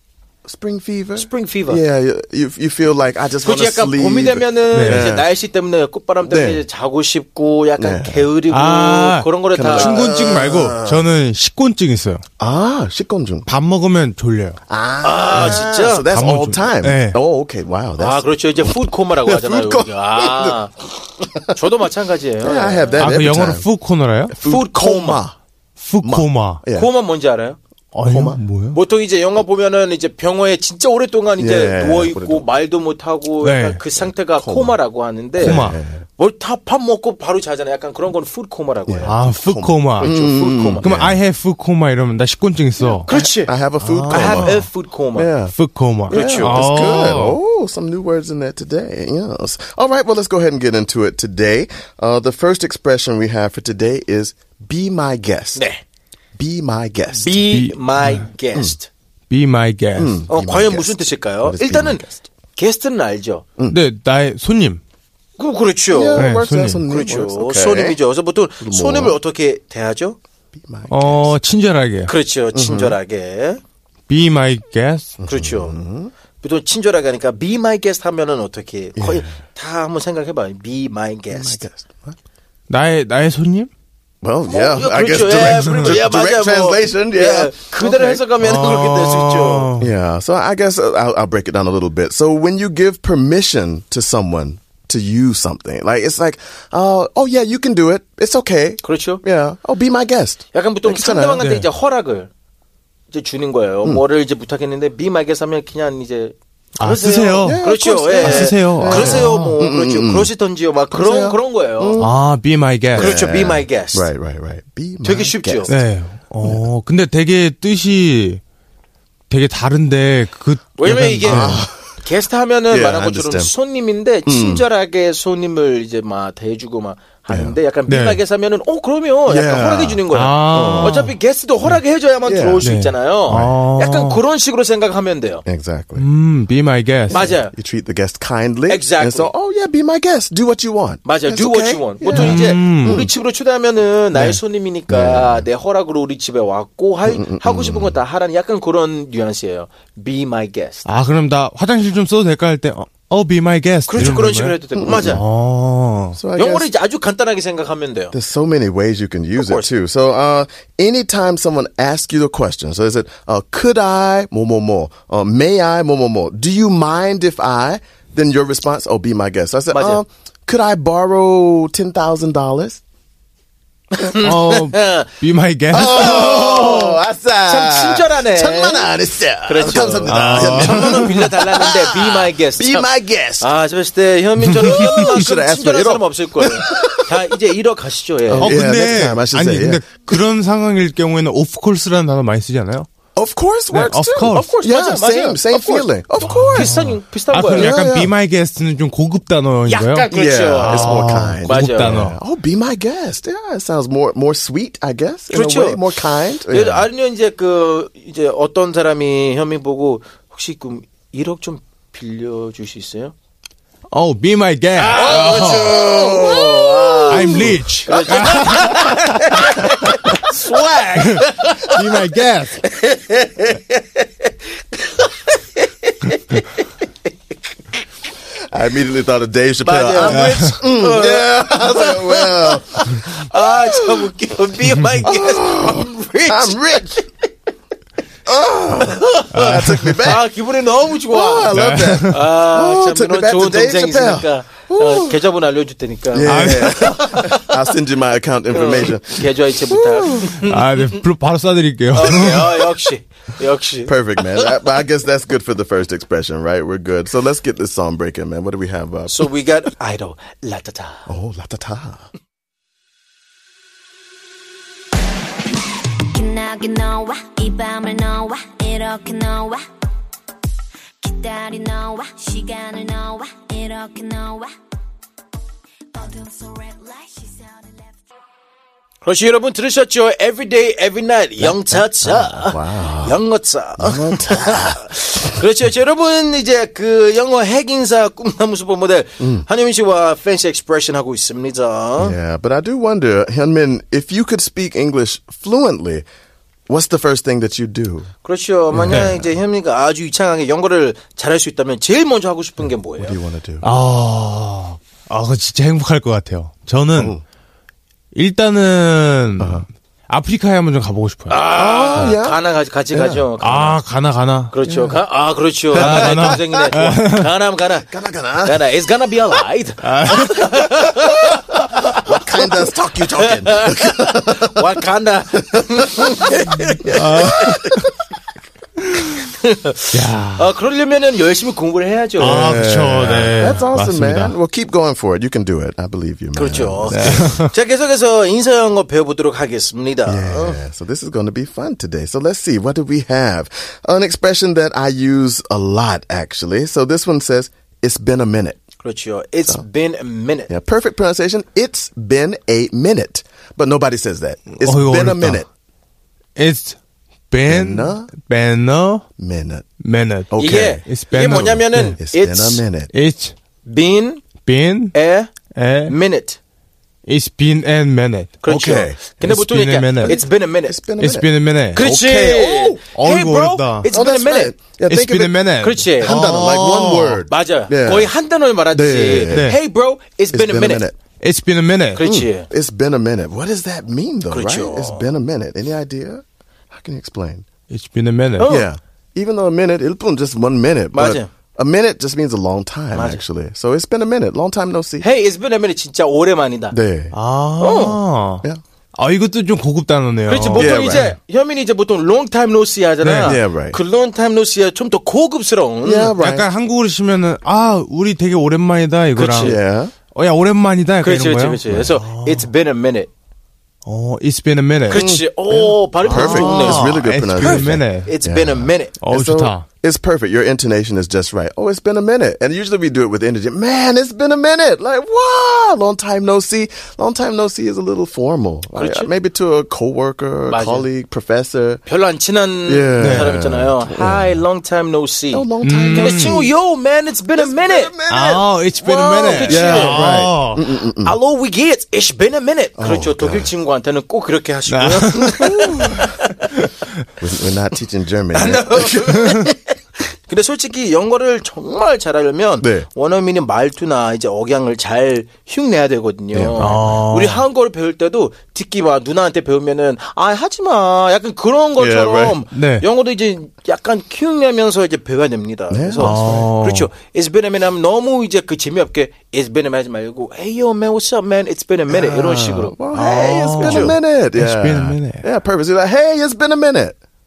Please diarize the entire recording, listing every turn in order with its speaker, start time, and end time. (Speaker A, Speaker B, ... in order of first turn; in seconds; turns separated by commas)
Speaker A: 0.4-5.3, Speaker B: 1.1-1.8, Speaker B: 3.4-10.1, Speaker C: 4.7-5.1, Speaker A: 6.2-6.7, Speaker A: 7.8-8.3, Speaker C: 8.5-12.2, Speaker A: 9.5-11.1, Speaker A: 12.4-13.5, Speaker C: 13.4-14.6, Speaker A: 14.7-20.6, Speaker B: 15.0-16.1, Speaker C: 15.3-17.2, Speaker B: 18.0-20.9, Speaker B: 21.5-23.0, Speaker A: 22.4-23.7, Speaker C: 23.0-24.4, Speaker A: 24.3-25.4, Speaker B: 24.4-25.2, Speaker C: 25.8-26.6, Speaker A: 26.0-26.9, Speaker B: 26.7-27.6, Speaker C: 27.9-28.8, Speaker A: 28.0-28.4, Speaker B: 28.7-35.6, Speaker A: 31.4-32.5, Speaker C: 33.4-33.8, Speaker A: 34.0-34.8, Speaker A: 35.4-36.1, Speaker C: 35.4-35.8, Speaker B: 36.2-39.1, Speaker A: 38.9-41.2, Speaker C: 39.0-40.1, Speaker B: 40.0-40.9, Speaker C: 40.8-43.1, Speaker A: 42.8-45.5, Speaker B: 43.0-43.5, Speaker C: 43.8-44.6, Speaker B: 44.1-45.3, Speaker C: 45.5-47.4, Speaker A: 46.1-55.6, Speaker B: 46.1-46.7, Speaker B: 55.5-55.8, Speaker A: 56.4-57.5, Speaker B: 57.1-58.9, Speaker C: 57.5-58.2, Speaker A: 58.1-58.8, Speaker C: 59.3-60.2, Speaker A: 59.9-62.2, Speaker B: 60.3-63.4, Speaker C: 63.7-64.8, Speaker B: 65.4-66.3, Speaker A: 65.9-68.0, Speaker C: 66.2-66.8, Speaker B: 66.9-70.2, Speaker A: 68.6-69.2, Speaker A: 70.5-71.3, Speaker C: 70.9-72.1, Speaker B: 72.1-73.6, Speaker A: 72.5-73.0, Speaker C: 74.1-75.2, Speaker A: 75.2-76.1, Speaker B: 75.3-75.8, Speaker B: 76.4-81.6, Speaker A: 79.0-79.4, Speaker A: 81.3-82.2, Speaker C: 82.7-83.7, Speaker A: 84.2-88.3, Speaker B: 84.5-89.7, Speaker C: 85.3-86.0, Speaker C: 88.4-89.9, Speaker A: 89.8-101.4, Speaker B: 98.8-99.2, Speaker B: 100.5-102.3, Speaker C: 101.4-101.7, Speaker B: 103.1-112.0, Speaker C: 106.8-109.5, Speaker A: 107.4-110.3, Speaker A: 110.9-112.1, Speaker C: 112.0-113.1, Speaker A: 112.9-115.8, Speaker B: 112.9-114.1, Speaker B: 115.0-115.7, Speaker C: 115.7-118.4, Speaker C: 119.3-121.6, Speaker B: 120.8-135.4, Speaker A: 121.2-121.8, Speaker A: 122.7-123.5, Speaker A: 124.2-124.7, Speaker A: 127.3-127.6, Speaker C: 127.9-128.2, Speaker A: 129.2-131.0, Speaker C: 130.1-131.8, Speaker A: 132.2-132.6, Speaker C: 132.6-134.2, Speaker A: 135.4-136.1, Speaker C: 136.0-137.3, Speaker A: 137.1-143.1, Speaker B: 137.1-137.5, Speaker B: 138.7-139.3, Speaker B: 141.0-150.9, Speaker C: 142.1-143.1, Speaker C: 144.1-144.4, Speaker A: 144.9-145.4, Speaker A: 147.0-148.0, Speaker C: 150.8-154.6, Speaker B: 153.9-155.2, Speaker A: 154.7-155.2, Speaker C: 155.1-156.2, Speaker A: 156.1-156.7, Speaker B: 156.3-158.1, Speaker A: 158.1-172.8, Speaker B: 159.3-159.7, Speaker B: 169.7-170.0, Speaker B: 173.9-175.1, Speaker C: 174.2-176.3, Speaker A: 175.7-183.5, Speaker B: 175.7-188.6, Speaker C: 180.1-181.1, Speaker A: 184.6-187.2, Speaker C: 184.7-185.1, Speaker A: 188.3-190.2, Speaker C: 188.3-192.9, Speaker A: 193.1-196.7, Speaker C: 193.7-194.5, Speaker B: 194.3-197.7, Speaker C: 196.2-200.1, Speaker A: 197.5-198.1, Speaker B: 199.7-202.0, Speaker A: 200.1-206.9, Speaker C: 200.6-202.2, Speaker B: 205.3-205.8, Speaker B: 206.4-213.1, Speaker C: 213.9-215.8, Speaker B: 214.8-221.9, Speaker A: 215.5-217.5, Speaker C: 217.1-219.5, Speaker C: 220.9-222.6, Speaker B: 222.6-226.7, Speaker A: 228.5-234.1, Speaker B: 229.6-237.1, Speaker A: 235.0-237.0, Speaker A: 238.2-240.2, Speaker B: 238.7-241.5, Speaker C: 239.3-240.1, Speaker A: 241.1-245.2, Speaker C: 241.5-242.2, Speaker B: 242.1-247.6, Speaker A: 246.1-250.4, Speaker C: 246.2-246.9, Speaker B: 248.5-251.0, Speaker C: 250.4-252.7, Speaker B: 251.9-254.7, Speaker A: 253.8-259.3, Speaker B: 259.1-261.1, Speaker A: 261.1-262.1, Speaker D: 266.1-269.6, Speaker D: 271.0-274.5, Speaker D: 275.9-277.7, Speaker B: 279.0-292.2, Speaker A: 281.4-283.2, Speaker A: 283.8-285.4, Speaker A: 289.2-289.4, Speaker A: 292.0-296.0, Speaker A: 296.7-298.1, Speaker B: 298.2-303.1, Speaker A: 298.7-299.3, Speaker C: 298.8-299.2, Speaker A: 303.0-303.7, Speaker C: 303.6-307.1, Speaker A: 306.9-307.2, Speaker C: 308.1-311.4, Speaker A: 309.4-309.6, Speaker B: 311.3-313.8, Speaker A: 311.5-313.3, Speaker C: 313.4-314.5, Speaker B: 314.5-322.5, Speaker A: 314.6-315.0, Speaker A: 315.7-316.4, Speaker C: 315.7-317.3, Speaker A: 317.9-318.7, Speaker C: 319.8-320.6, Speaker A: 321.9-324.8, Speaker B: 323.2-327.5, Speaker A: 325.9-326.5, Speaker C: 326.9-327.9, Speaker B: 329.2-332.5, Speaker C: 329.9-330.5, Speaker C: 332.2-334.4, Speaker A: 332.2-337.4, Speaker B: 336.3-340.6, Speaker C: 336.9-337.5, Speaker A: 340.1-348.6, Speaker B: 348.8-350.5, Speaker A: 350.5-355.5, Speaker C: 354.6-355.4, Speaker C: 356.4-356.8, Speaker C: 357.3-359.0, Speaker A: 357.4-358.1, Speaker A: 359.2-359.6, Speaker C: 359.8-362.0, Speaker A: 360.3-360.8, Speaker B: 360.4-362.6, Speaker A: 361.9-362.9, Speaker C: 362.9-363.3, Speaker B: 363.6-364.2, Speaker C: 364.4-364.9, Speaker B: 364.9-365.3, Speaker C: 365.5-365.9, Speaker B: 365.9-366.4, Speaker C: 367.1-368.4, Speaker B: 368.4-370.8, Speaker A: 368.4-369.0, Speaker C: 369.2-370.2, Speaker A: 370.0-372.8, Speaker C: 371.0-371.9, Speaker B: 371.7-374.5, Speaker C: 372.9-373.9, Speaker A: 373.8-375.4, Speaker C: 374.9-377.2, Speaker B: 375.6-376.1, Speaker A: 376.0-379.6, Speaker B: 377.3-380.9, Speaker C: 379.3-379.6, Speaker A: 380.3-381.0, Speaker C: 381.2-382.1, Speaker B: 381.9-382.5, Speaker A: 382.0-387.4, Speaker B: 384.3-385.1, Speaker C: 387.7-388.5, Speaker B: 388.4-388.7, Speaker A: 388.4-395.1, Speaker B: 390.9-391.3, Speaker B: 392.9-393.2, Speaker B: 395.0-396.8, Speaker A: 396.7-397.1, Speaker C: 397.1-398.4, Speaker B: 397.6-398.0, Speaker C: 398.9-400.8, Speaker B: 400.3-406.1, Speaker A: 400.5-401.1, Speaker C: 403.0-403.4, Speaker A: 403.2-403.8, Speaker A: 405.8-406.5, Speaker C: 406.2-409.6, Speaker B: 409.1-409.6, Speaker A: 409.4-409.9, Speaker C: 410.1-412.5, Speaker B: 411.0-413.1, Speaker A: 411.7-411.9, Speaker C: 413.8-415.1, Speaker B: 414.9-418.9, Speaker A: 414.9-431.8, Speaker C: 416.0-418.1, Speaker C: 419.0-419.6, Speaker B: 428.7-429.1, Speaker B: 430.5-430.9, Speaker B: 431.9-437.9, Speaker A: 432.6-434.4, Speaker C: 433.0-433.3, Speaker A: 435.3-436.5, Speaker C: 435.6-436.4, Speaker A: 437.3-438.4, Speaker C: 438.1-440.6, Speaker B: 438.8-440.2, Speaker A: 439.4-441.2, Speaker B: 440.8-446.5, Speaker A: 442.8-443.5, Speaker C: 444.7-445.5, Speaker A: 445.4-446.1, Speaker A: 447.2-449.3, Speaker B: 448.3-472.8, Speaker A: 452.6-452.9, Speaker A: 456.3-457.0, Speaker C: 456.6-457.4, Speaker A: 461.8-462.4, Speaker C: 462.5-462.8, Speaker A: 465.7-466.5, Speaker C: 466.0-466.9, Speaker A: 471.9-477.0, Speaker C: 472.9-475.2, Speaker B: 473.5-473.9